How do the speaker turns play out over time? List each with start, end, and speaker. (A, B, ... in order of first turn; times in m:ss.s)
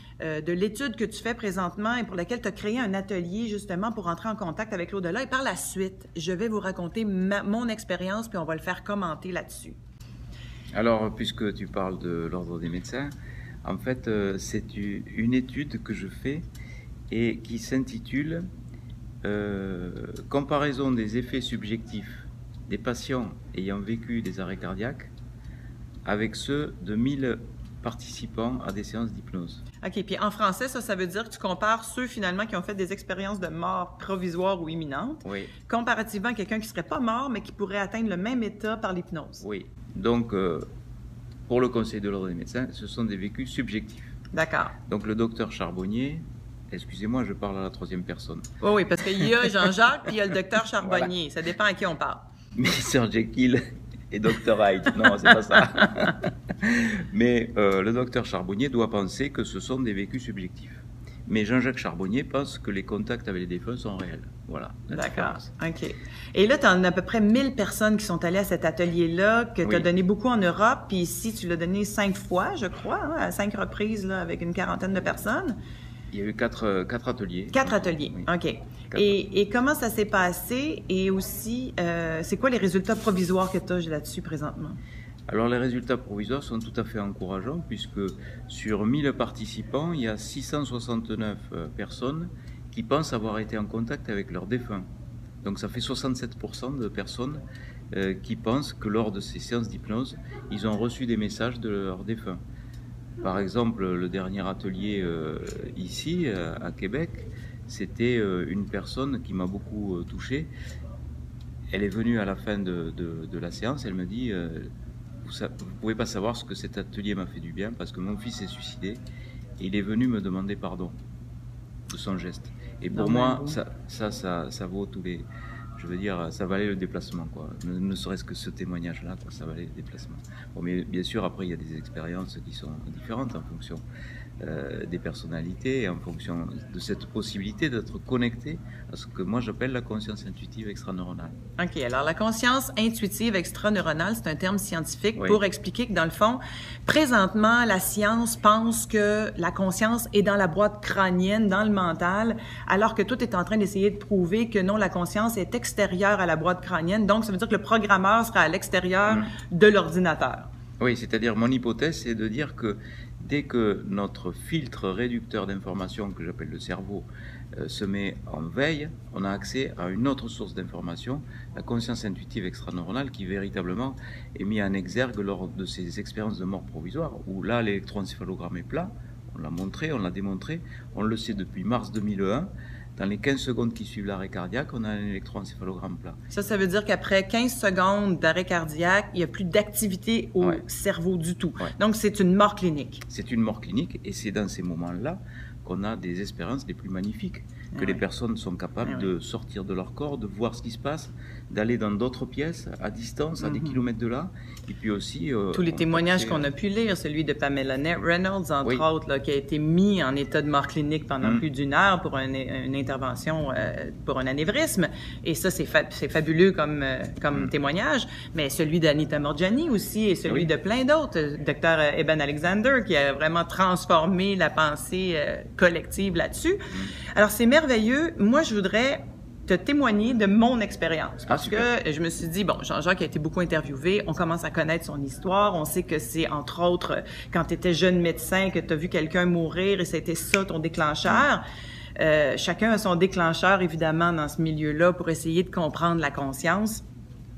0:00.2-0:09.8 A
0:10.7-0:13.1 B
0:13.6-0:16.5 B
0:17.1-0:18.5 B
0:19.2-0:25.1 B
0:26.0-0:29.6 B
0:29.8-0:39.4 A
0:35.2-0:35.5 B
0:39.4-0:40.7 B
0:41.5-0:44.2 B
0:44.3-0:44.7 A
0:44.9-0:48.5 B
0:48.6-0:52.3 A
0:50.8-0:51.1 B
0:52.6-1:05.5 B
1:04.9-1:15.6 A
1:16.1-1:18.3 B
1:17.5-1:24.8 A
1:25.3-1:34.9 B
1:35.4-1:42.4 B
1:43.2-1:50.5 B
1:51.7-1:54.7 B
1:55.2-1:59.0 B
1:59.6-2:01.0 B
2:01.9-2:05.3 B
2:02.9-2:03.6 A
2:05.8-2:13.8 B
2:14.4-2:21.4 B
2:21.6-2:40.5 A
2:40.8-3:06.2 B
3:06.3-3:13.0 A
3:13.1-3:26.5 B
3:17.7-3:18.0 A
3:18.8-3:19.1 A
3:23.4-3:23.8 A
3:25.5-3:46.6 A
3:47.1-4:01.4 A
3:51.3-3:51.7 B
4:02.0-4:06.8 A